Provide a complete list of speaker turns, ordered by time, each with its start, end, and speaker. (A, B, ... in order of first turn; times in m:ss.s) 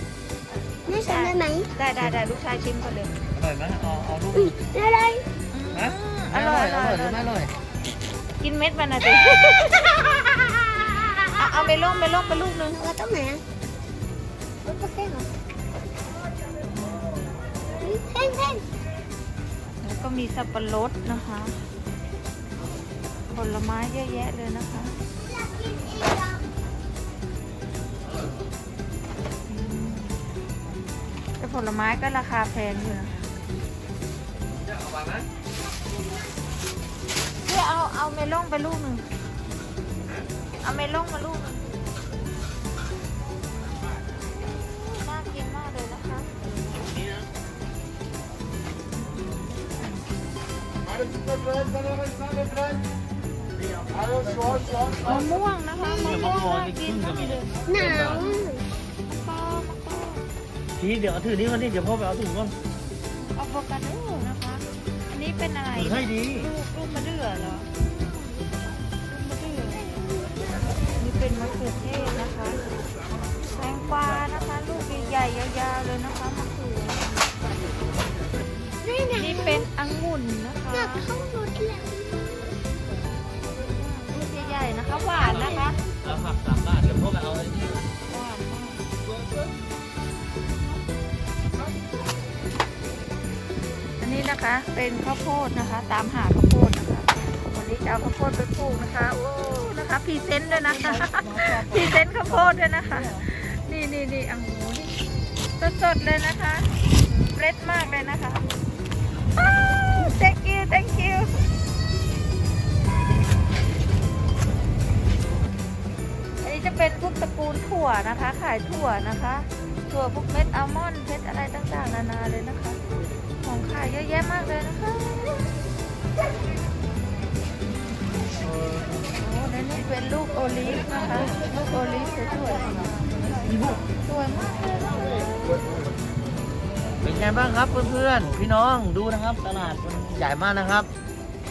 0:00.9-0:01.7 A
0:00.9-0:03.1 B
0:03.3-0:04.6 C
0:04.3-0:05.2 A
0:05.5-0:07.3 B
0:05.7-0:07.5 C
0:08.4-0:10.3 B
0:11.3-0:12.8 B
0:12.7-0:13.4 A
0:14.6-0:15.3 A
0:16.7-0:17.2 B
0:17.8-0:18.6 A
0:19.8-0:21.6 B
0:23.3-0:25.0 B
0:29.4-0:30.2 B
0:31.4-0:33.2 B
0:37.4-0:39.0 B
0:40.6-0:41.8 B
0:44.6-0:46.5 B
0:53.7-0:55.2 C
0:54.9-0:57.5 B
0:55.8-0:58.2 C
0:57.6-0:58.6 A
0:59.1-1:00.2 B
1:00.8-1:02.5 C
1:03.3-1:07.8 B
1:05.7-1:06.5 C
1:09.1-1:09.8 B
1:09.8-1:10.4 A
1:11.0-1:12.6 B
1:13.5-1:17.0 B
1:18.8-1:19.7 A
1:19.1-1:21.0 B
1:20.7-1:22.6 A
1:23.7-1:25.8 B
1:25.2-1:25.7 A
1:26.0-1:27.8 C
1:28.1-1:28.8 B
1:34.0-1:44.9 B
1:45.6-1:48.4 B
1:49.7-1:51.3 B
1:56.4-2:02.8 B
2:03.4-2:05.5 B
2:09.2-2:12.8 B
2:13.5-2:13.8 C
2:13.9-2:15.6 B
2:17.0-2:20.9 C